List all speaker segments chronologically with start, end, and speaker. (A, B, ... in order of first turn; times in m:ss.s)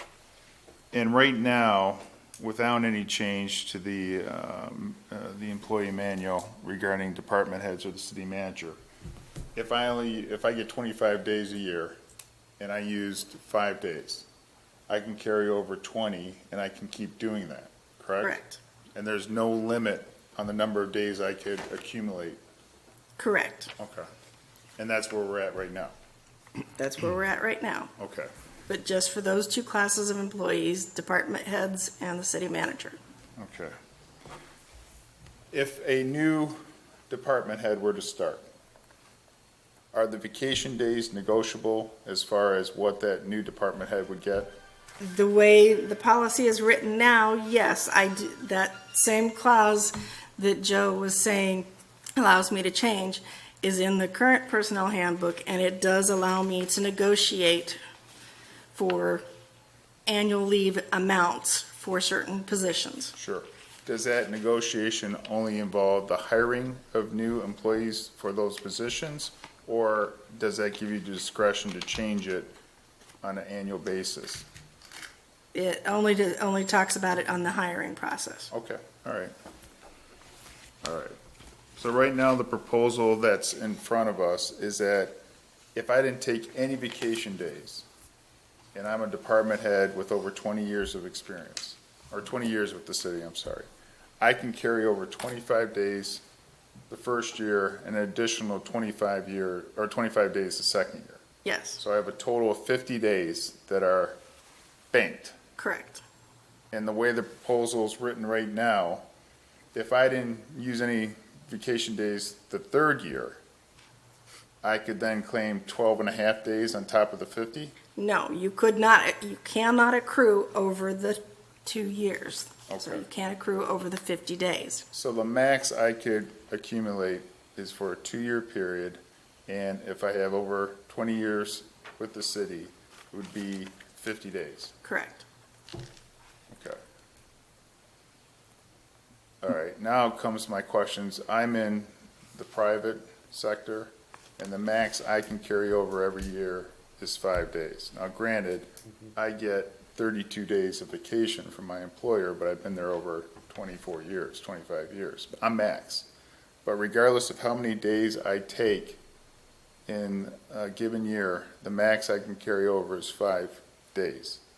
0:00.9-0:08.8 A
0:09.5-0:12.0 A
0:12.6-0:14.2 A
0:14.9-0:18.3 A
0:18.2-0:18.6 B
0:19.0-0:22.4 A
0:23.2-0:23.7 B
0:23.8-0:24.0 A
0:24.8-0:25.9 A
0:26.8-0:27.9 B
0:28.0-0:28.3 A
0:28.7-0:33.0 B
0:33.4-0:33.7 A
0:35.5-0:38.4 A
0:39.9-0:44.5 A
0:45.0-0:57.8 B
0:58.7-0:59.2 B
1:00.1-1:03.1 B
1:03.1-1:12.5 A
1:13.2-1:14.4 A
1:15.5-1:18.5 B
1:18.5-1:19.3 A
1:20.8-1:21.1 A
1:21.8-1:25.2 A
1:25.7-1:27.8 A
1:28.7-1:33.7 A
1:34.2-1:36.2 A
1:36.9-1:41.2 A
1:41.4-1:41.8 B
1:41.8-1:44.2 A
1:44.9-1:45.4 A
1:45.6-1:46.0 B
1:46.7-1:49.0 A
1:49.7-1:53.4 A
1:54.6-1:57.7 A
1:58.0-2:04.8 B
2:02.7-2:03.0 A
2:04.9-2:14.7 A
2:14.8-2:15.2 B
2:16.5-2:16.8 A
2:19.4-2:36.0 A
2:36.6-2:39.0 A
2:39.9-2:44.4 A